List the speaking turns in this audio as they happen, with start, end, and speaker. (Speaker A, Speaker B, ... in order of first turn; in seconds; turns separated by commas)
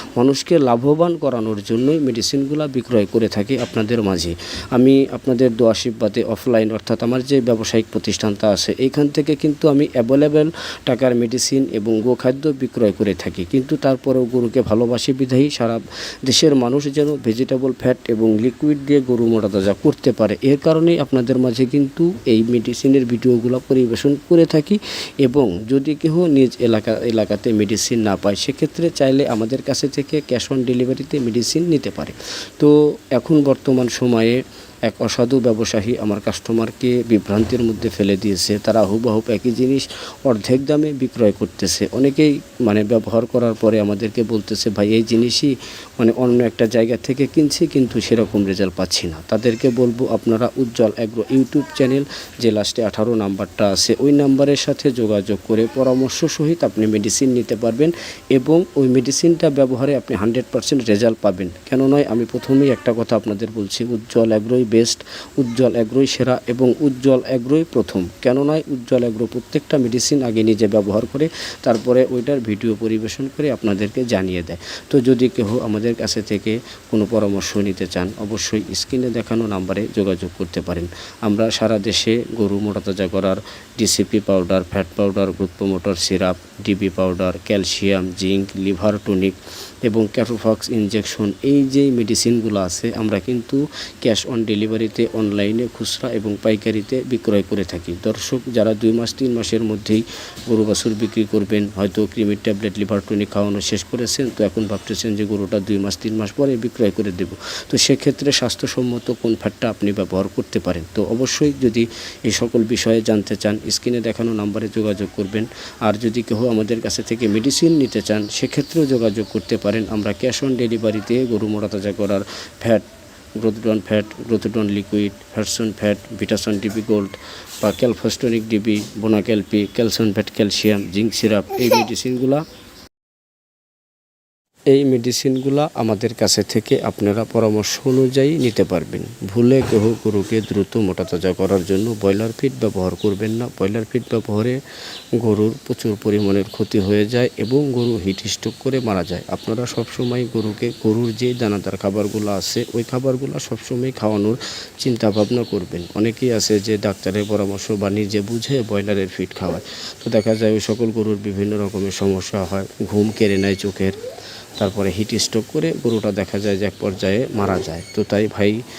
Speaker A: 0.2-122.8, Speaker A: 123.4-132.4, Speaker A: 134.7-144.6, Speaker A: 145.2-164.0, Speaker A: 164.6-168.6